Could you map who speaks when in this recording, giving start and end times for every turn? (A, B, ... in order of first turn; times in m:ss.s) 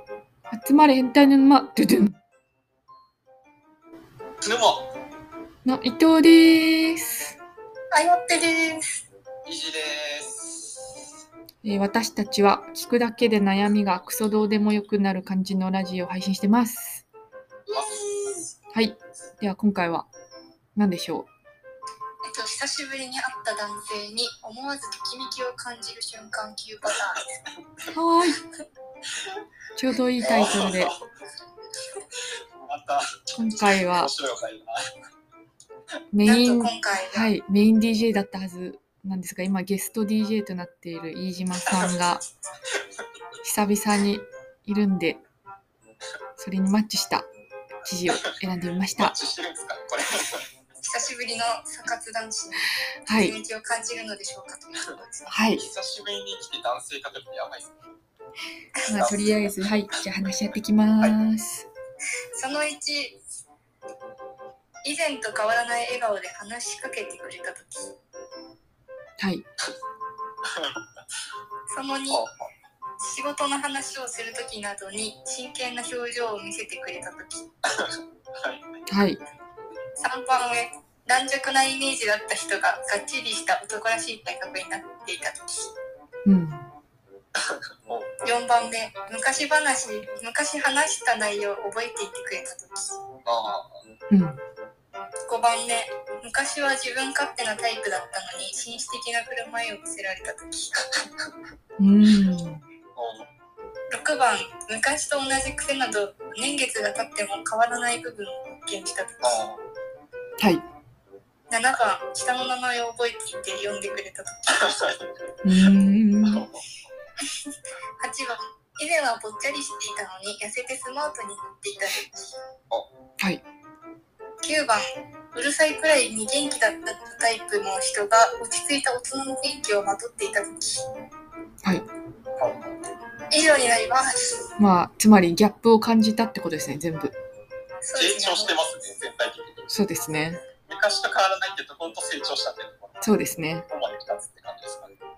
0:00.5-0:02.2 A
0:04.4-0:04.9 B
0:05.6-0:07.4 A
0:07.9-0:09.0 C
0:09.4-0:10.9 B
0:11.6-0:17.0 A
0:17.7-0:18.4 C
0:17.7-0:18.2 B
0:18.7-0:20.1 A
0:20.8-0:21.3 A
0:22.3-0:27.4 C
0:27.9-0:28.4 A
0:29.8-0:30.9 A
0:30.2-0:31.0 B
0:32.6-0:34.8 B
0:33.3-0:34.1 A
0:36.1-0:42.2 A
0:36.2-0:37.3 C
0:43.4-0:45.2 A
0:46.4-0:47.3 A
0:47.8-0:49.2 A
0:49.0-0:50.4 B
0:50.8-0:55.4 C
0:53.0-0:53.4 A
0:55.3-0:55.6 A
0:55.5-0:57.7 B
0:58.9-1:01.7 A
0:59.0-0:59.4 B
1:02.4-1:03.2 C
1:04.8-1:07.9 C
1:09.2-1:09.4 A
1:10.5-1:10.8 B
1:11.7-1:12.2 C
1:12.1-1:12.5 B
1:13.0-1:17.5 C
1:17.7-1:18.6 B
1:18.9-1:19.2 A
1:20.0-1:25.7 C
1:26.2-1:26.7 A
1:27.4-1:28.1 B
1:28.2-1:33.0 C
1:33.2-1:33.8 B
1:34.1-1:34.4 A
1:35.3-1:40.8 C
1:41.8-1:42.6 A
1:43.0-1:43.3 B
1:43.9-1:49.4 C
1:49.2-1:49.6 B
1:50.4-1:50.6 A
1:51.5-1:54.8 C
1:54.5-1:55.0 B
1:55.4-1:56.4 A
1:56.2-1:56.7 B
1:58.0-2:02.4 C
2:04.4-2:04.8 C
2:05.3-2:10.9 C
2:12.4-2:12.8 B
2:13.3-2:14.4 C
2:14.6-2:17.2 A
2:17.8-2:18.6 C
2:18.0-2:19.7 B
2:19.7-2:20.4 A
2:20.7-2:25.0 B
2:23.0-2:23.7 A